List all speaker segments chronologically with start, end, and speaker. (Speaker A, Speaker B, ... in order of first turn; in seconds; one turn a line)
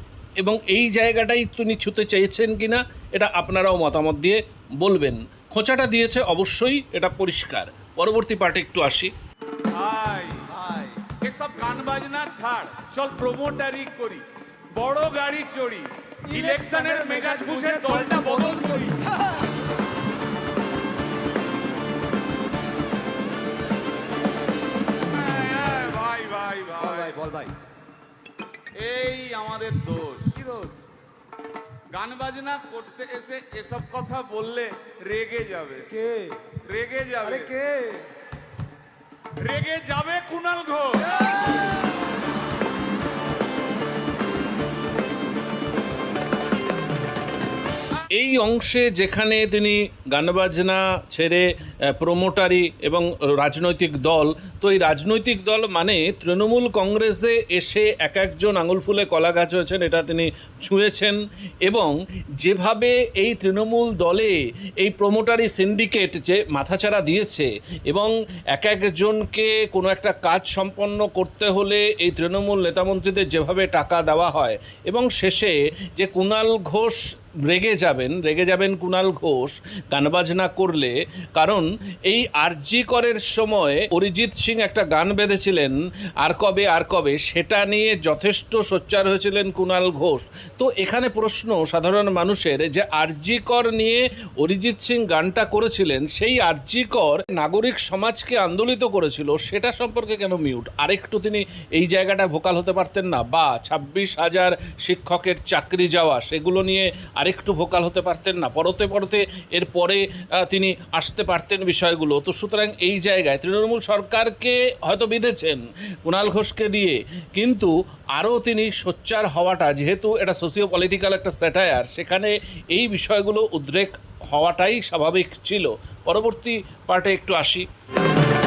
Speaker A: 0.4-9.1
Speaker B: 9.7-10.5
Speaker C: 10.5-11.0
Speaker B: 11.2-19.0
Speaker C: 16.2-19.2
Speaker B: 25.1-27.1
Speaker C: 26.8-27.5
Speaker B: 28.8-30.4
Speaker C: 30.4-30.8
Speaker B: 31.9-35.9
Speaker C: 35.9-36.4
Speaker B: 36.6-37.5
Speaker C: 37.2-38.1
Speaker B: 39.4-41.2
Speaker A: 48.1-127.7